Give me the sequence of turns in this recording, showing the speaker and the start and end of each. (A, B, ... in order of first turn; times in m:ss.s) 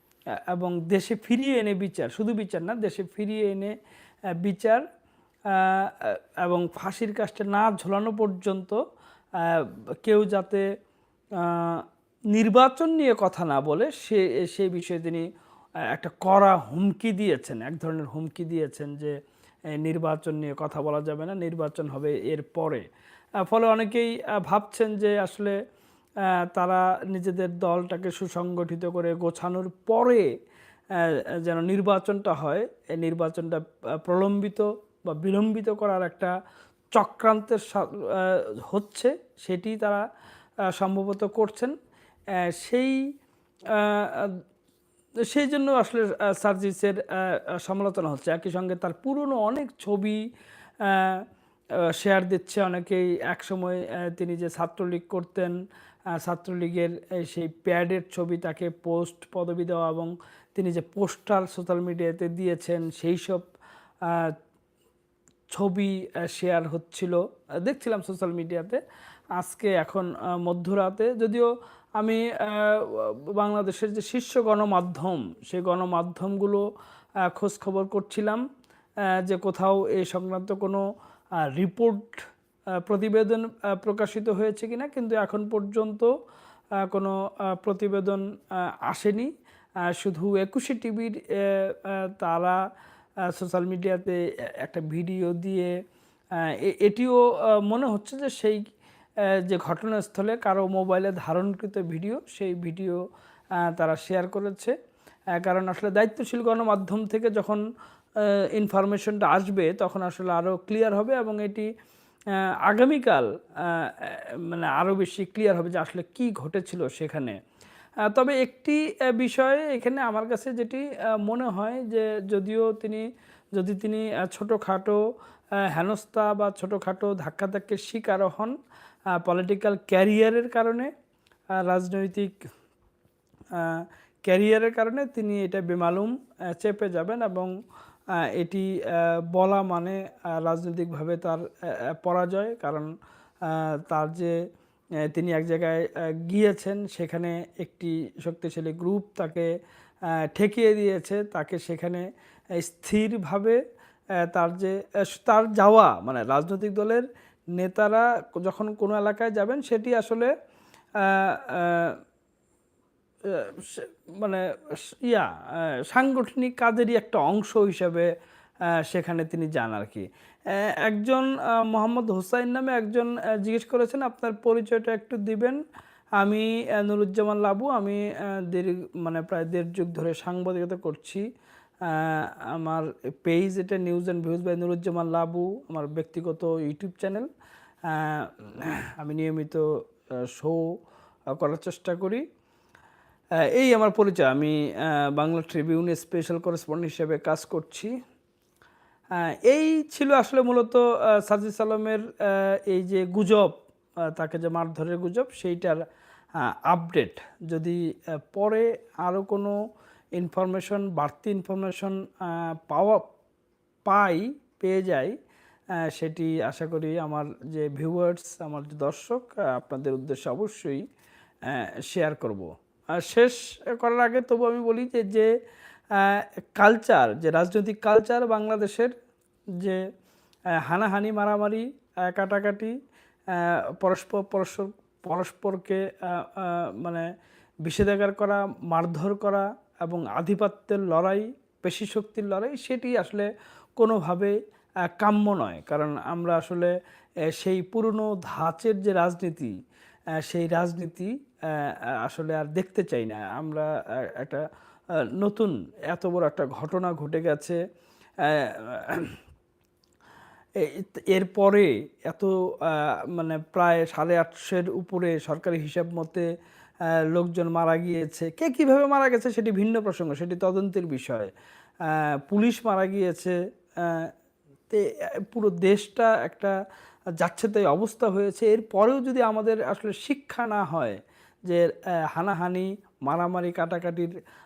0:00.5-0:03.7 A
0:04.4-0:04.8 A
0:05.5-0:08.8 A
0:09.4-0:10.6 A
0:11.4-0:15.2 A
0:15.9-0:19.1 A
0:19.8-0:22.8 A
0:23.4-0:25.5 A
0:26.4-0:30.3 A
0:30.9-0:36.3 A
0:36.9-0:40.0 A
0:40.7-0:41.7 A
0:42.4-0:43.0 A
0:43.7-0:44.4 A
0:45.3-0:50.2 A
0:50.8-0:51.2 A
0:51.9-0:55.5 A
0:56.1-1:03.4 A
1:04.0-1:04.4 A
1:05.5-1:08.8 A
1:09.4-1:11.5 A
1:12.0-1:16.6 A
1:17.2-1:18.4 A
1:19.2-1:20.8 A
1:21.4-1:22.2 A
1:22.8-1:26.1 A
1:26.8-1:28.2 A
1:28.8-1:29.3 A
1:29.9-1:32.6 A
1:33.3-1:35.7 A
1:36.4-1:38.6 A
1:39.4-1:43.0 A
1:43.6-1:44.7 A
1:45.4-1:47.6 A
1:48.2-1:51.7 A
1:52.4-1:57.4 A
1:58.0-2:05.0 A
2:05.6-2:08.5 A
2:09.2-2:10.9 A
2:11.5-2:12.4 A
2:13.5-2:17.5 A
2:18.1-2:22.9 A
2:23.4-2:24.3 A
2:25.1-2:29.5 A
2:30.2-2:32.0 A
2:32.6-2:33.6 A
2:34.2-2:40.3 A
2:41.0-2:42.0 A
2:43.2-2:48.1 A
2:48.8-2:55.6 A
2:56.2-3:01.2 A
3:01.8-3:07.3 A
3:07.9-3:09.7 A
3:10.2-3:10.7 A
3:11.3-3:12.2 A
3:13.5-3:17.9 A
3:19.1-3:23.6 A
3:24.1-3:25.8 A
3:26.4-3:29.6 A
3:30.2-3:33.1 A
3:33.8-3:35.2 A
3:35.7-3:40.8 A
3:41.4-3:45.3 A
3:45.9-3:48.9 A
3:50.6-3:52.7 A
3:53.3-3:57.1 A
3:57.6-4:06.7 A
4:07.3-4:09.5 A
4:10.2-4:14.4 A
4:15.2-4:17.6 A
4:18.2-4:19.2 A
4:20.6-4:26.2 A
4:27.1-4:31.3 A
4:31.8-4:34.1 A
4:34.7-4:36.6 A
4:37.2-4:44.1 A